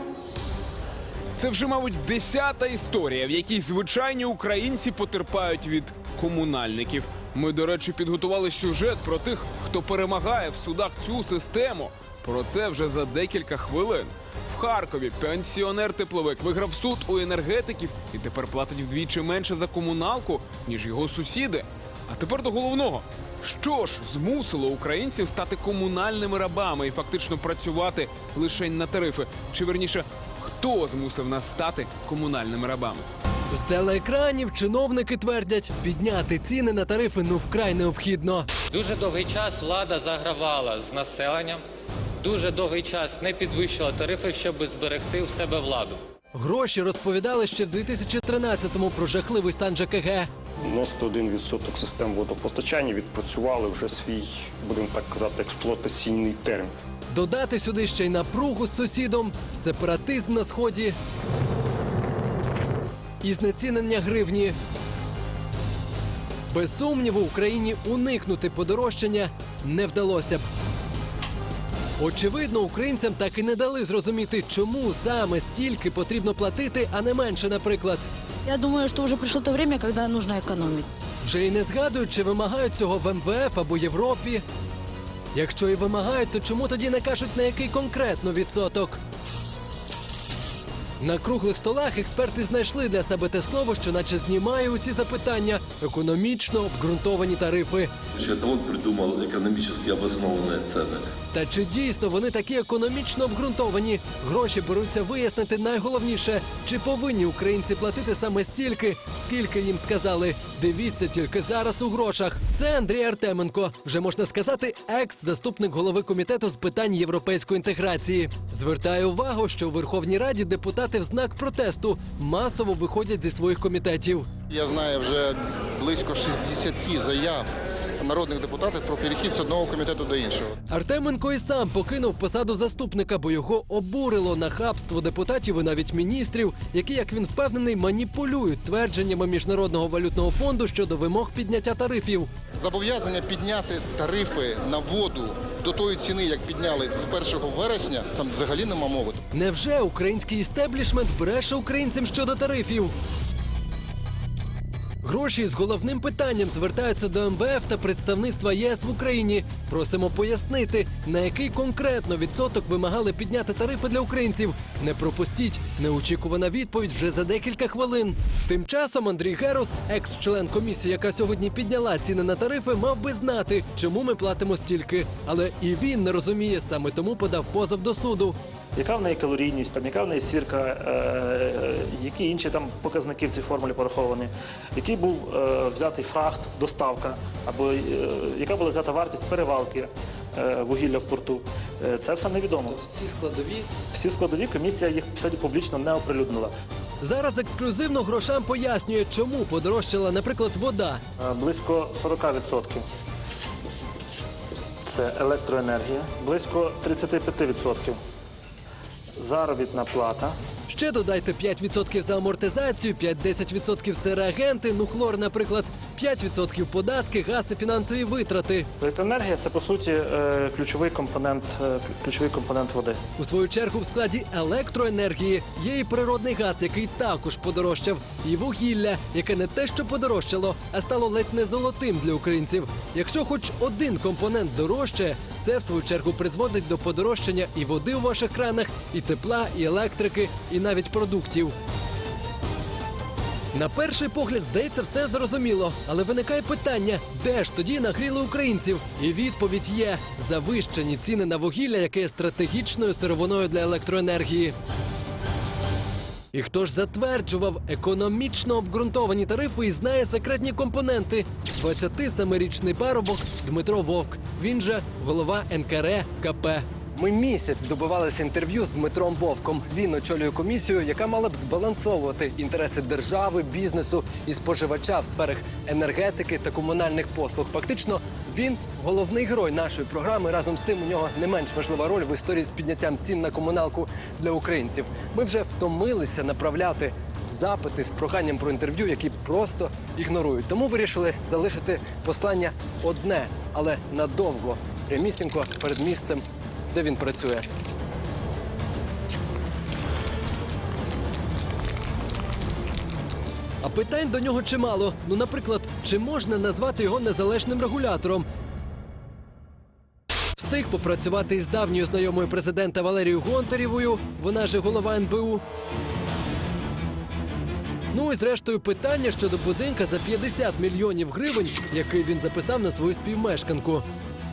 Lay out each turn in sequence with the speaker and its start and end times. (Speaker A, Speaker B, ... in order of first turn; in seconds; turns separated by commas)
Speaker A: 1.4-33.1, Speaker B: 33.5-38.5, Speaker C: 38.7-41.6, Speaker C: 42.2-46.0, Speaker B: 46.3-50.3, Speaker D: 50.6-56.7, Speaker B: 57.1-61.0, Speaker B: 63.2-64.6, Speaker B: 66.5-70.4, Speaker B: 72.0-78.1, Speaker C: 78.5-80.5, Speaker E: 78.7-80.8, Speaker B: 81.2-84.4, Speaker B: 85.3-89.0, Speaker B: 91.0-97.9, Speaker F: 98.2-101.1, Speaker B: 101.3-124.3, Speaker G: 124.5-127.5, Speaker G: 128.0-130.5, Speaker B: 130.7-142.3, Speaker G: 142.6-149.2, Speaker B: 149.3-152.9, Speaker B: 155.0-178.4, Speaker H: 178.8-192.8, Speaker B: 192.7-193.6, Speaker H: 193.9-196.5, Speaker B: 197.0-201.0, Speaker H: 201.2-202.8, Speaker H: 204.9-208.0, Speaker H: 209.2-210.3, Speaker B: 210.7-218.7, Speaker H: 218.8-223.0, Speaker B: 223.2-241.5, Speaker B: 243.5-254.6, Speaker B: 256.3-297.5, Speaker B: 303.6-308.3, Speaker B: 310.4-315.4, Speaker B: 317.9-323.8